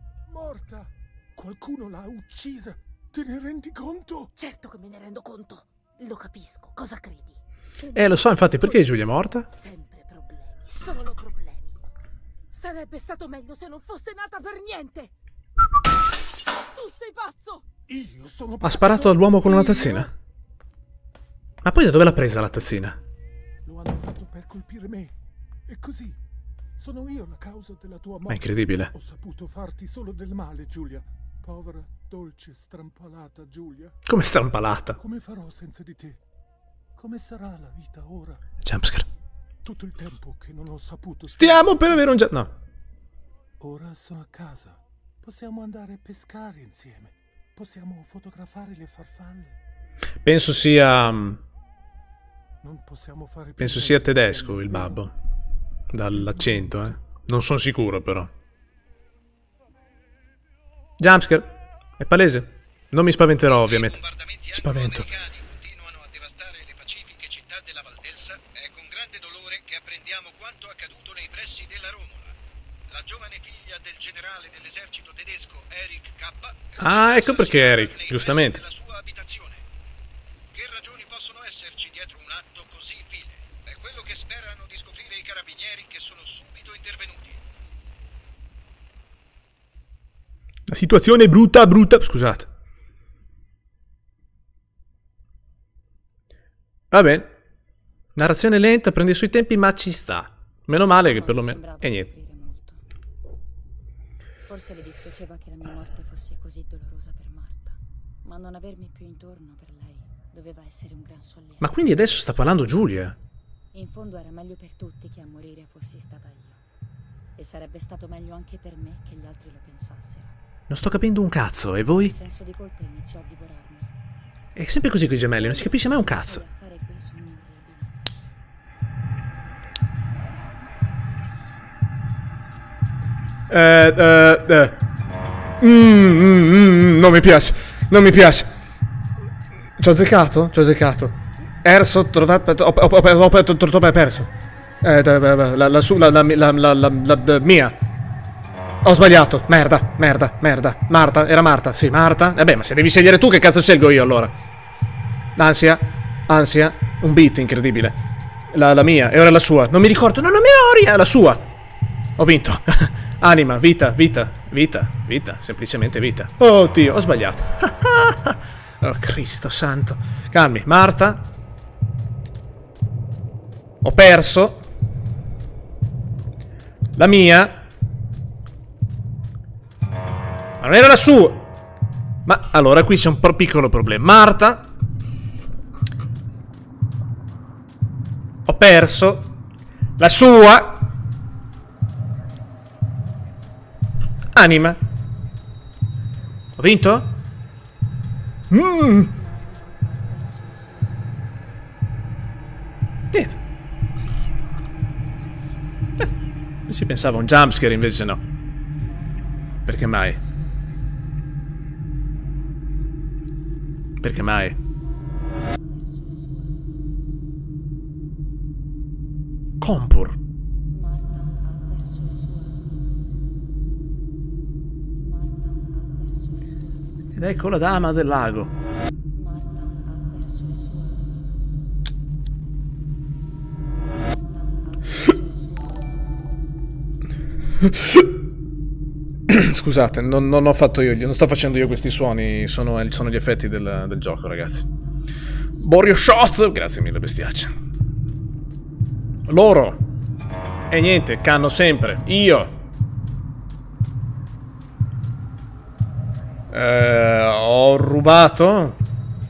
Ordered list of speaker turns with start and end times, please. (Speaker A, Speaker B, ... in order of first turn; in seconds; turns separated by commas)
Speaker A: 0.2-4.3, Speaker B: 4.3-11.8, Speaker C: 7.9-9.5, Speaker B: 12.5-15.1, Speaker B: 16.6-17.7, Speaker A: 17.9-20.1, Speaker C: 18.6-20.1, Speaker C: 21.6-23.0, Speaker A: 23.6-25.1, Speaker A: 25.6-26.2, Speaker A: 26.8-34.0, Speaker C: 28.3-28.9, Speaker C: 34.0-35.0, Speaker A: 35.0-36.2, Speaker A: 37.0-38.4, Speaker C: 38.6-39.1, Speaker A: 39.6-42.0, Speaker C: 41.3-42.5, Speaker A: 43.6-49.6, Speaker C: 50.2-51.4, Speaker A: 52.6-55.0, Speaker C: 53.6-55.1, Speaker C: 55.9-58.3, Speaker C: 61.0-64.0, Speaker D: 63.6-72.4, Speaker C: 64.5-65.1, Speaker D: 72.9-79.7, Speaker C: 76.8-78.6, Speaker D: 80.5-87.4, Speaker C: 90.7-92.5, Speaker C: 96.9-97.3, Speaker C: 98.1-102.1, Speaker E: 100.9-102.8, Speaker E: 104.4-111.8, Speaker C: 111.6-113.2, Speaker E: 113.7-116.6, Speaker E: 117.4-120.4, Speaker C: 120.7-122.1, Speaker E: 122.0-123.9, Speaker C: 124.5-126.4, Speaker E: 125.3-128.0, Speaker C: 133.5-134.8, Speaker C: 135.6-138.5, Speaker C: 139.8-147.8, Speaker C: 148.8-154.3, Speaker C: 155.3-158.0, Speaker C: 158.5-161.4, Speaker C: 162.2-171.2, Speaker C: 173.8-174.6, Speaker C: 176.9-177.6, Speaker C: 180.6-181.5, Speaker C: 182.2-184.7, Speaker C: 188.4-189.3, Speaker C: 190.0-190.9, Speaker C: 194.3-194.8, Speaker C: 196.6-197.1, Speaker C: 198.5-199.1, Speaker E: 198.9-201.3, Speaker C: 203.1-203.4, Speaker E: 204.8-205.5, Speaker C: 206.7-208.2, Speaker E: 208.8-210.8, Speaker C: 209.7-210.2, Speaker C: 214.0-214.6, Speaker E: 215.5-216.6, Speaker C: 219.6-220.2, Speaker E: 220.7-223.0, Speaker E: 225.0-226.8, Speaker C: 227.1-228.5, Speaker E: 229.1-231.4, Speaker E: 233.9-236.1, Speaker C: 237.6-238.1, Speaker C: 239.3-244.7, Speaker C: 245.6-247.5, Speaker C: 249.2-249.8, Speaker C: 250.7-252.6, Speaker C: 256.5-258.8